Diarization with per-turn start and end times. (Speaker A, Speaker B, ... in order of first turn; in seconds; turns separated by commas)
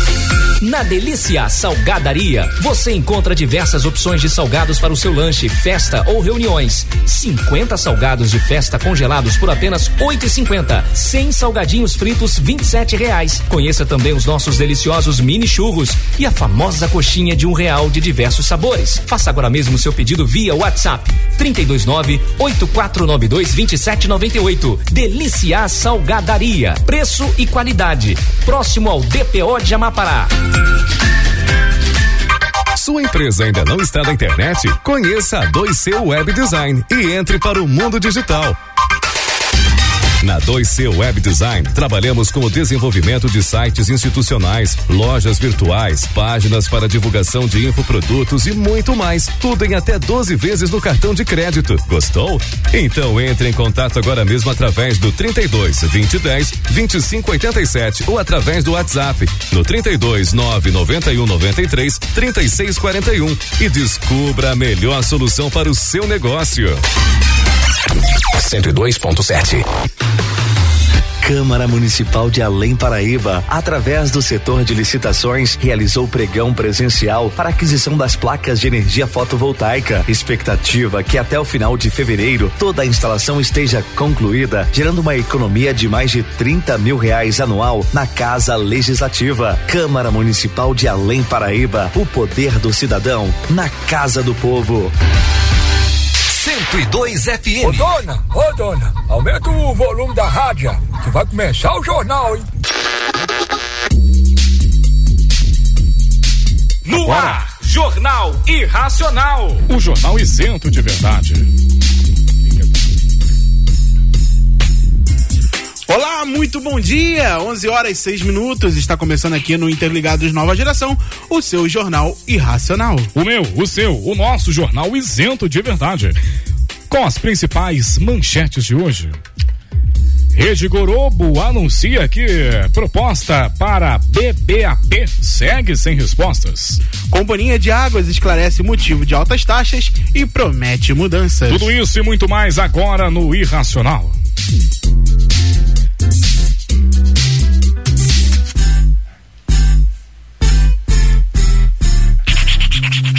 Speaker A: 0.6-30.3, Speaker B: 32.8-38.6, Speaker B: 40.2-66.8, Speaker C: 71.2-94.9, Speaker D: 97.3-102.4, Speaker E: 106.8-111.5, Speaker F: 115.9-123.1, Speaker E: 123.1-126.2, Speaker E: 126.9-129.2, Speaker E: 130.3-136.8, Speaker F: 137.1-141.7, Speaker E: 141.5-144.2